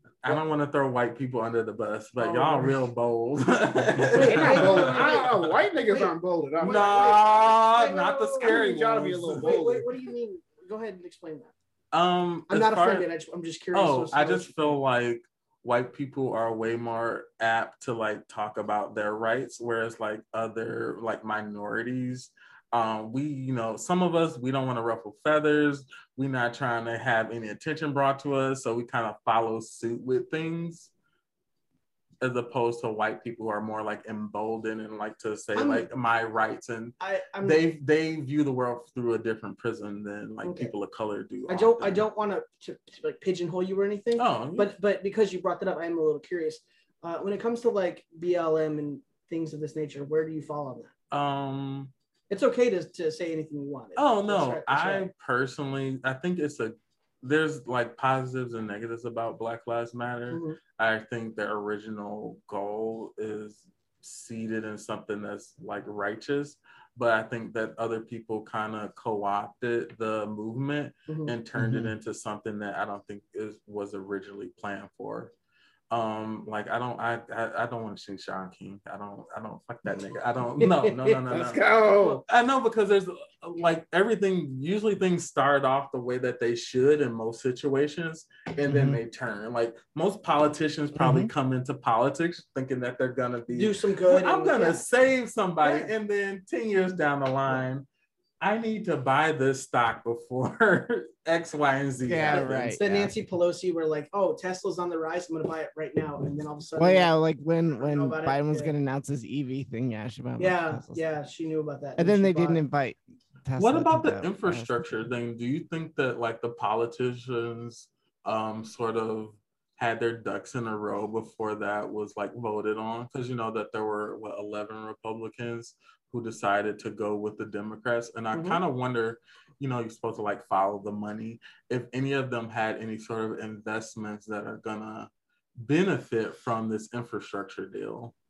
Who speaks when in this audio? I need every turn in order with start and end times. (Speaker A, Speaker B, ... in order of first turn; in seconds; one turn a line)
Speaker A: 0.2-5.5
Speaker B: 2.2-2.8
Speaker C: 4.1-7.1
Speaker B: 4.1-5.3
Speaker B: 5.9-8.6
Speaker A: 6.6-9.5
Speaker C: 8.4-9.9
Speaker B: 9.4-11.5
Speaker A: 11.9-13.1
Speaker B: 12.5-14.8
Speaker A: 13.7-30.9
Speaker A: 32.2-42.0
Speaker B: 35.5-35.9
Speaker B: 37.0-37.6
Speaker B: 40.4-40.7
Speaker B: 41.5-50.9
Speaker A: 44.2-44.7
Speaker A: 51.1-51.9
Speaker B: 52.3-55.1
Speaker A: 54.0-75.3
Speaker B: 60.3-60.6
Speaker B: 71.1-71.3
Speaker A: 75.9-97.8
Speaker B: 80.6-81.2
Speaker C: 81.3-82.2
Speaker D: 88.7-89.0
Speaker D: 91.0-91.3
Speaker B: 93.5-94.8
Speaker B: 95.6-95.9
Speaker A: 98.4-103.0
Speaker D: 102.0-103.1
Speaker B: 102.3-107.1
Speaker D: 106.8-111.0
Speaker B: 107.8-108.7
Speaker B: 110.4-112.6
Speaker D: 112.0-114.7
Speaker A: 113.6-135.1
Speaker B: 128.3-128.6
Speaker A: 135.6-138.1